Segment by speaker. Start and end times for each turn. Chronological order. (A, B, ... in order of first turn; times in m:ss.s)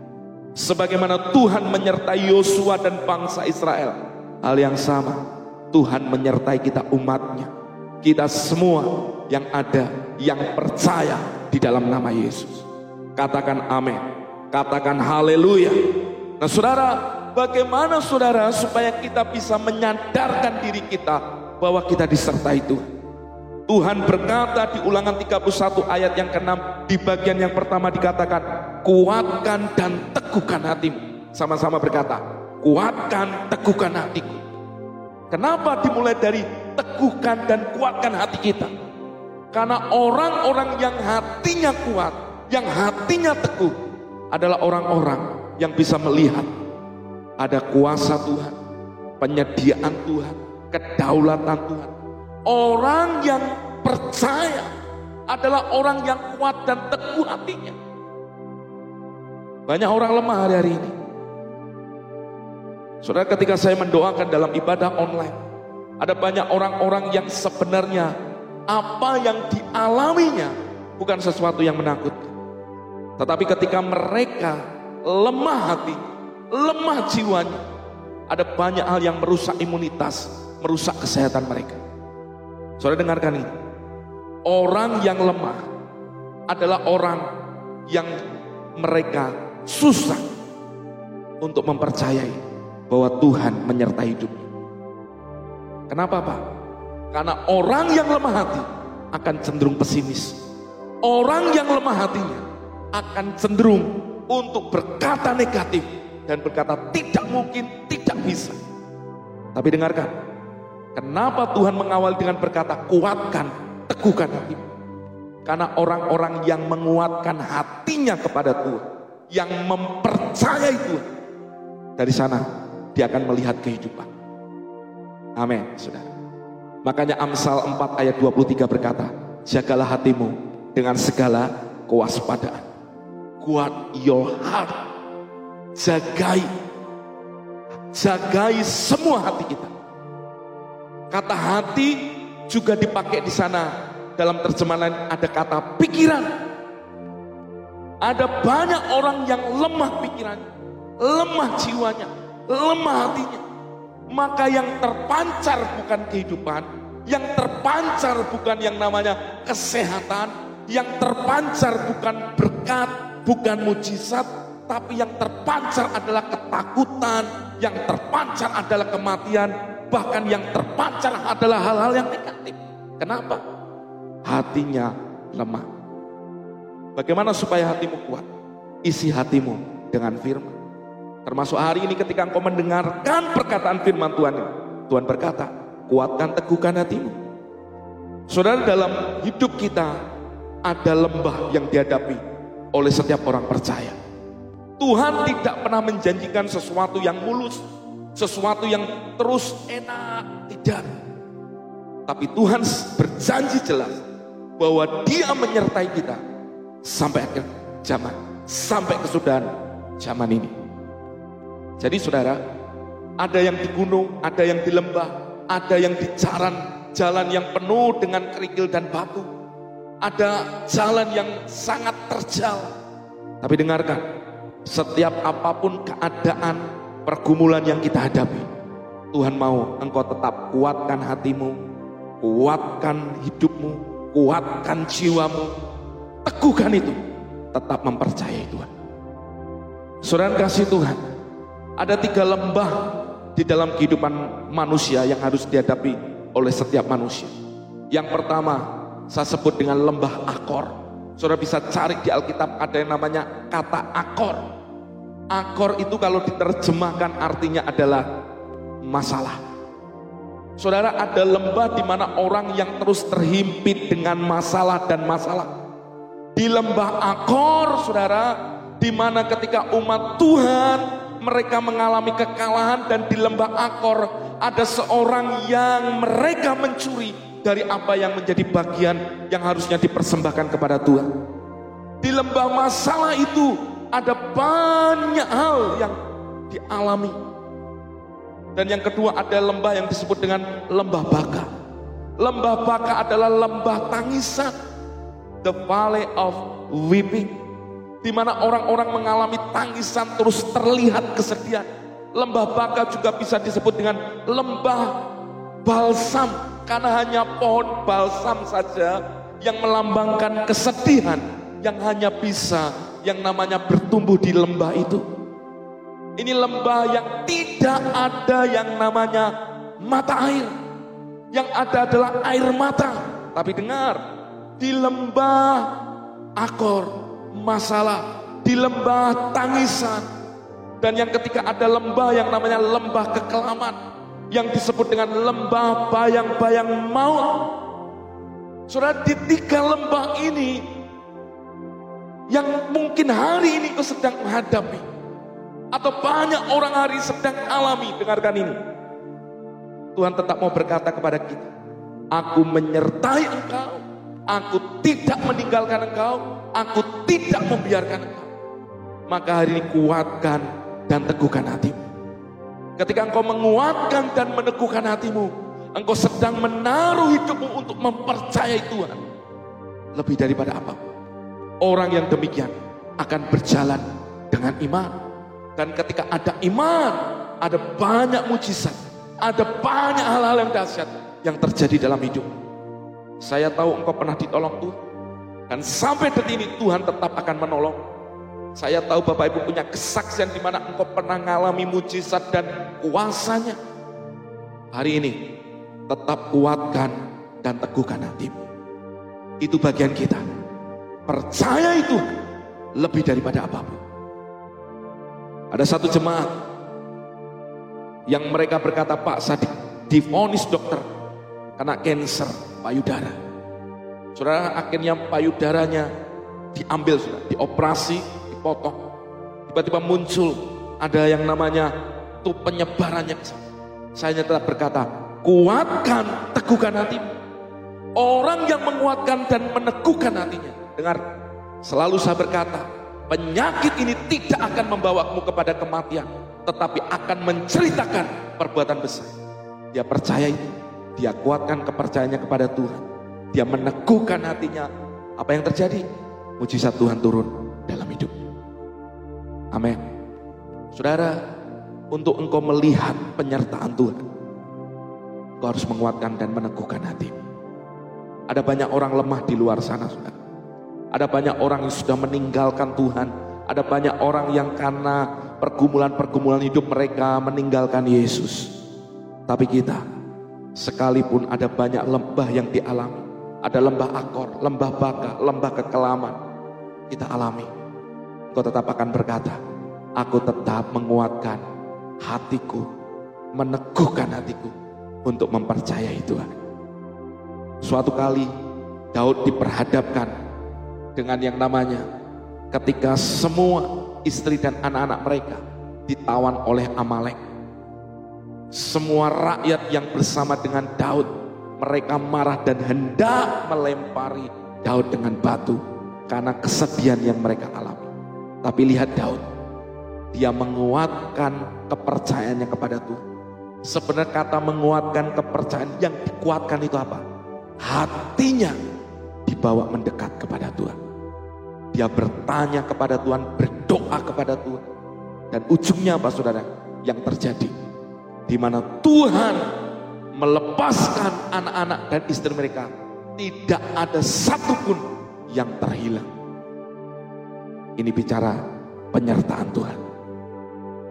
0:00.6-0:15.8 A
0:16.4-0:22.9 A
0:23.7-0:34.4 A
0:35.3-0:38.7 A
0:39.5-0:43.8 A
0:44.3-0:46.5 A
0:47.4-0:48.6 A
0:49.2-0:51.9 A
0:52.5-0:54.7 A
0:55.3-0:57.8 A
0:59.7-1:01.0 A
1:03.0-1:05.4 A
1:06.0-1:08.1 A
1:08.7-1:12.3 A
1:13.2-1:17.6 A
1:18.3-1:21.8 A
1:22.8-1:23.5 A
1:24.5-1:25.7 A
1:26.5-1:27.3 A
1:27.9-1:28.2 A
1:28.8-1:30.3 A
1:31.4-1:34.5 A
1:35.9-1:36.4 A
1:37.1-1:40.4 A
1:41.0-1:48.6 A
1:49.6-1:50.2 A
1:51.0-1:54.7 A
1:55.4-2:01.1 A
2:02.0-2:04.1 A
2:05.4-2:06.1 A
2:06.8-2:12.6 A
2:13.4-2:14.8 A
2:15.8-2:16.5 A
2:17.9-2:19.7 A
2:21.1-2:26.3 A
2:28.0-2:30.5 A
2:31.0-2:33.4 A
2:34.1-2:53.4 A
2:54.2-2:55.7 A
2:57.0-2:58.3 A
2:58.8-3:00.6 A
3:01.3-3:07.2 A
3:08.3-3:10.0 A
3:10.6-3:12.2 A
3:12.7-3:14.0 A
3:14.8-3:17.6 A
3:18.2-3:20.9 A
3:22.1-3:24.0 A
3:24.6-3:26.2 A
3:26.8-3:30.6 A
3:31.8-3:32.4 A
3:33.2-3:39.3 A
3:40.0-3:42.7 A
3:43.4-3:44.0 A
3:44.7-3:48.5 A
3:49.1-3:51.6 A
3:52.2-3:55.5 A
3:56.2-3:57.0 A
3:57.5-3:58.7 A
4:00.0-4:01.0 A
4:01.8-4:07.3 A
4:07.9-4:14.4 A
4:15.3-4:18.1 A
4:18.8-4:19.4 A
4:20.6-4:25.5 A
4:26.4-4:41.1 A
4:42.0-4:46.0 A
4:46.5-4:47.2 A
4:48.6-4:51.5 A
4:52.2-4:54.6 A
4:55.4-4:57.4 A
4:58.0-5:05.0 A
5:05.6-5:15.0 A
5:16.2-5:20.5 A
5:21.3-5:24.0 A
5:24.6-5:25.8 A
5:26.4-5:30.1 A
5:30.8-5:33.8 A
5:34.3-5:37.5 A
5:38.7-5:40.6 A
5:42.3-5:44.8 A
5:45.7-5:48.6 A
5:50.0-5:51.5 A
5:52.1-5:58.3 A
5:59.1-6:01.9 A
6:02.8-6:09.0 A
6:10.0-6:10.8 A
6:11.6-6:15.0 A
6:15.6-6:22.4 A
6:23.2-6:24.8 A
6:25.5-6:27.8 A
6:28.6-6:33.6 A
6:34.7-6:35.3 A
6:35.9-6:38.5 A
6:39.4-6:40.2 A
6:41.1-6:42.1 A
6:42.8-6:43.8 A
6:45.5-6:46.3 A
6:48.1-6:50.9 A
6:51.6-6:53.2 A
6:54.2-6:55.9 A
6:56.5-6:58.8 A
6:59.5-7:07.1 A
7:08.0-7:11.0 A
7:11.6-7:19.2 A
7:19.7-7:25.8 A
7:26.4-7:28.2 A
7:29.5-7:29.8 A
7:30.7-7:31.2 A
7:31.9-7:34.0 A
7:35.4-7:37.2 A
7:38.3-7:40.2 A
7:40.9-7:48.5 A
7:49.3-7:49.8 A
7:50.6-7:56.2 A
7:56.9-7:57.5 A
7:58.3-7:59.4 A
8:00.0-8:01.4 A
8:02.0-8:02.7 A
8:03.3-8:06.4 A
8:07.6-8:08.3 A
8:08.9-8:10.1 A
8:11.0-8:11.9 A
8:12.5-8:17.2 A
8:18.5-8:27.9 A
8:28.4-8:29.3 A
8:30.1-8:33.0 A
8:33.6-8:37.0 A
8:37.6-8:38.6 A
8:39.3-8:40.8 A
8:41.7-8:44.6 A
8:45.3-8:47.5 A
8:48.3-8:49.5 A
8:50.2-8:56.1 A
8:57.8-8:58.4 A
8:58.9-8:59.8 A